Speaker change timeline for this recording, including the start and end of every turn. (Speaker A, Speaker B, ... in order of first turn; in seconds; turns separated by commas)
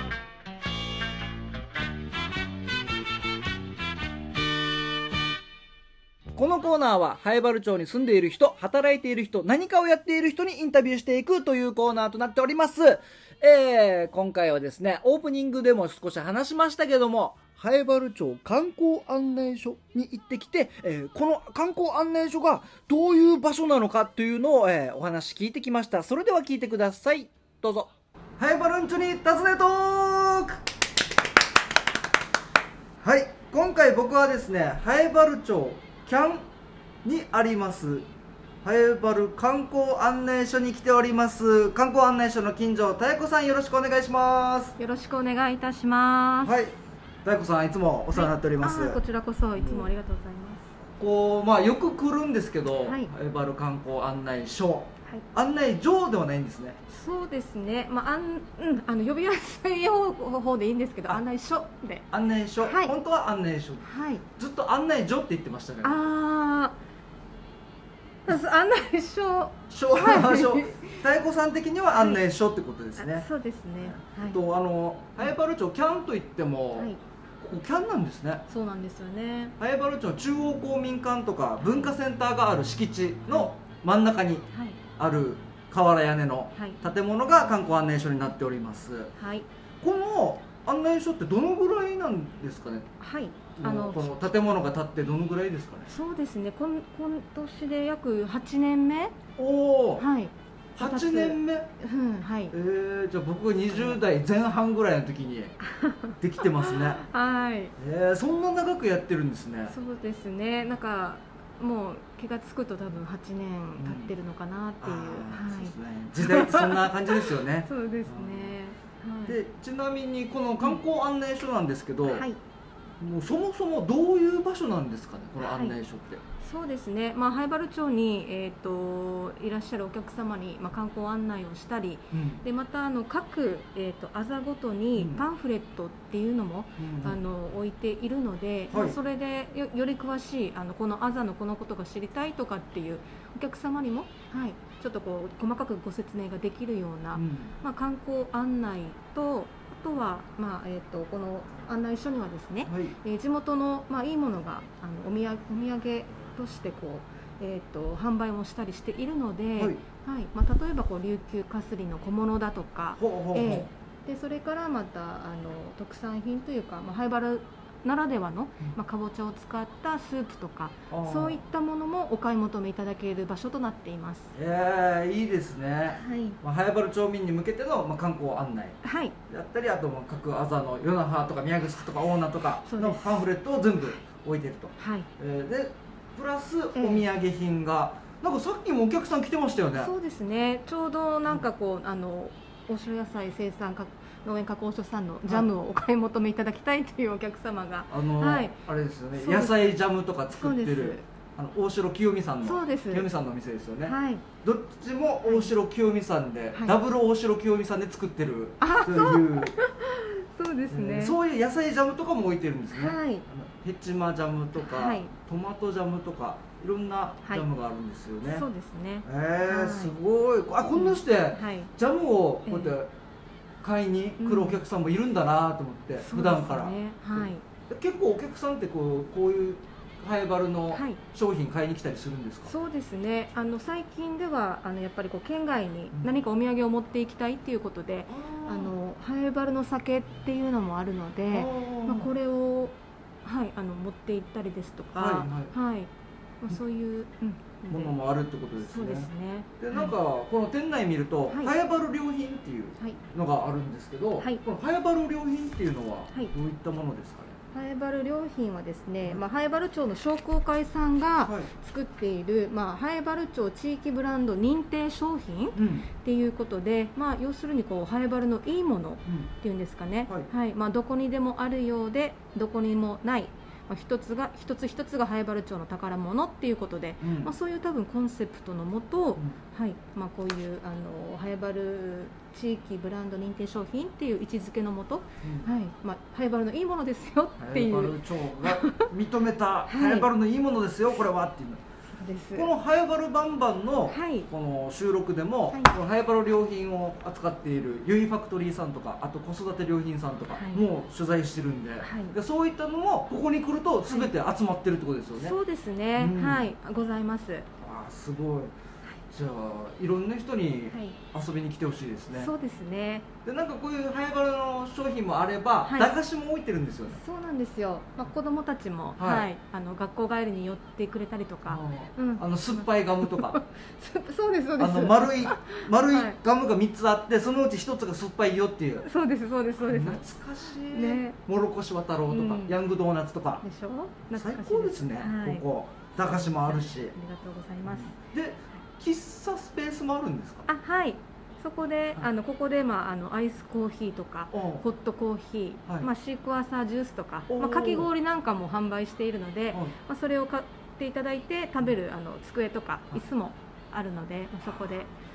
Speaker A: 6.3-30.6, Speaker A: 33.0-36.4, Speaker A: 37.0-38.1, Speaker A: 38.6-44.8, Speaker B: 44.8-46.5, Speaker A: 46.4-49.0, Speaker B: 48.1-50.7, Speaker A: 49.5-49.9, Speaker A: 50.9-56.8, Speaker B: 52.8-53.1, Speaker B: 56.9-62.1, Speaker A: 62.1-66.0, Speaker B: 62.6-63.0, Speaker B: 63.8-64.2, Speaker B: 65.8-66.8, Speaker B: 68.3-71.0, Speaker A: 69.7-73.2, Speaker B: 72.0-72.2, Speaker B: 73.0-74.4, Speaker A: 73.8-78.4, Speaker B: 78.5-79.5, Speaker A: 79.6-84.4, Speaker B: 84.5-84.8, Speaker A: 85.0-89.1, Speaker B: 86.5-86.8, Speaker B: 89.2-89.5, Speaker A: 89.8-92.9, Speaker B: 93.0-94.1, Speaker A: 93.6-95.9, Speaker B: 95.9-99.2, Speaker A: 99.4-100.0, Speaker B: 100.0-102.5, Speaker A: 100.7-101.7, Speaker A: 102.5-105.6, Speaker B: 103.7-104.0, Speaker B: 105.6-107.7, Speaker A: 106.2-107.0, Speaker A: 107.8-109.7, Speaker B: 109.7-119.4, Speaker A: 113.8-114.1, Speaker A: 114.8-118.6, Speaker A: 119.3-122.2, Speaker B: 122.0-122.4, Speaker A: 123.0-126.2, Speaker B: 125.4-125.8, Speaker B: 126.4-174.3, Speaker A: 132.1-132.4, Speaker A: 135.0-135.2, Speaker A: 136.8-137.2, Speaker A: 138.7-138.9, Speaker A: 147.1-147.5, Speaker A: 152.7-152.9, Speaker A: 163.0-163.7, Speaker A: 170.9-171.4, Speaker A: 174.3-189.9, Speaker B: 175.9-176.4, Speaker B: 178.8-179.1, Speaker B: 182.7-183.3, Speaker B: 184.8-185.1, Speaker B: 186.7-187.0, Speaker B: 189.8-198.6, Speaker A: 197.9-209.6, Speaker B: 199.1-199.8, Speaker B: 200.3-201.0, Speaker B: 202.4-203.1, Speaker B: 203.8-204.2, Speaker B: 205.2-205.5, Speaker B: 208.6-211.2, Speaker A: 210.7-218.5, Speaker B: 212.7-213.2, Speaker B: 214.6-215.1, Speaker B: 218.2-219.9, Speaker A: 219.0-222.9, Speaker B: 220.7-221.7, Speaker B: 222.4-222.7, Speaker A: 223.6-232.5, Speaker B: 224.2-224.6, Speaker B: 226.0-227.4, Speaker B: 230.7-231.0, Speaker B: 232.5-245.9, Speaker A: 238.1-238.7, Speaker A: 241.3-242.1, Speaker A: 244.9-245.5, Speaker B: 246.4-247.9, Speaker A: 247.7-257.4, Speaker B: 248.7-249.9, Speaker B: 257.5-288.9, Speaker A: 261.2-261.5, Speaker A: 265.5-265.9, Speaker A: 277.0-277.3, Speaker A: 285.2-285.5, Speaker A: 287.4-291.6, Speaker B: 289.7-290.1, Speaker B: 291.9-292.5, Speaker A: 292.3-305.3, Speaker B: 293.9-294.3, Speaker B: 300.3-300.6, Speaker B: 301.8-302.1, Speaker B: 305.1-307.5, Speaker A: 305.9-306.4, Speaker A: 307.6-308.5, Speaker A: 309.1-312.3, Speaker B: 310.7-311.0, Speaker B: 312.1-313.1, Speaker A: 313.2-317.0, Speaker B: 316.9-326.2, Speaker A: 319.0-319.3, Speaker A: 321.5-323.4, Speaker A: 324.6-328.9, Speaker B: 328.8-330.0, Speaker A: 329.6-333.4, Speaker B: 330.7-331.2, Speaker B: 332.1-332.6, Speaker B: 333.4-335.4, Speaker A: 334.1-336.9, Speaker B: 336.1-337.9, Speaker A: 337.7-340.5, Speaker B: 340.5-354.9, Speaker A: 344.3-344.6, Speaker A: 347.3-347.9